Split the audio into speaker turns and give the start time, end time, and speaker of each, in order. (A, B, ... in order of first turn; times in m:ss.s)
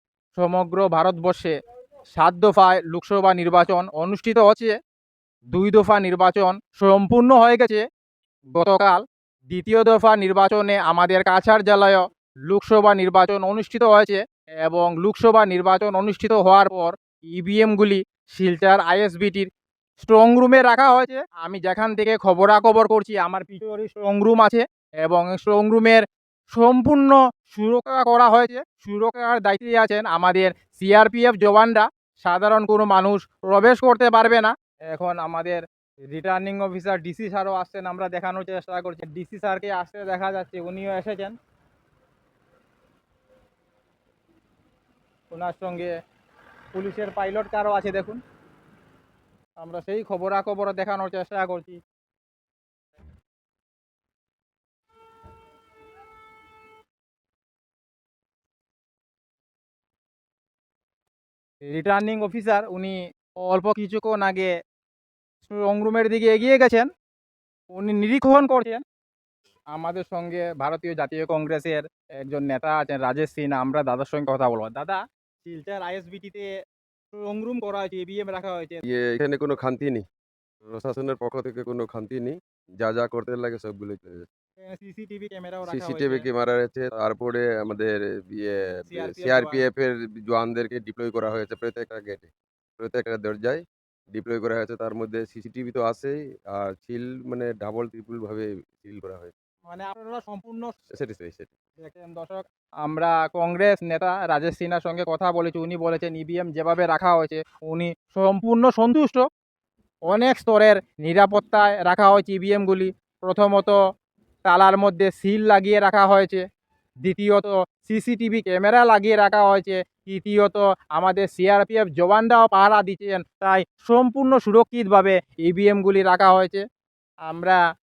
0:00.4-0:01.5 A
0:02.2-0:04.8 A
0:05.5-0:07.8 A
0:08.6-0:19.5 A
0:20.0-0:35.6 A
0:36.1-0:41.3 A
0:45.3-0:45.9 A
0:46.7-0:48.2 A
0:49.6-0:51.8 A
1:01.7-1:04.5 A
1:05.4-1:06.9 A
1:07.7-1:08.8 A
1:09.7-1:16.5 A
1:17.1-1:18.8 A
1:18.8-1:20.0 B
1:20.7-1:24.2 B
1:24.6-1:26.3 A
1:25.7-1:33.6 B
1:28.9-1:29.6 A
1:34.1-1:39.3 B
1:39.7-1:40.7 A
1:41.0-1:41.5 B
1:41.8-1:49.2 A
1:50.1-1:53.8 A
1:54.5-1:56.4 A
1:57.0-2:06.6 A
2:07.3-2:07.6 A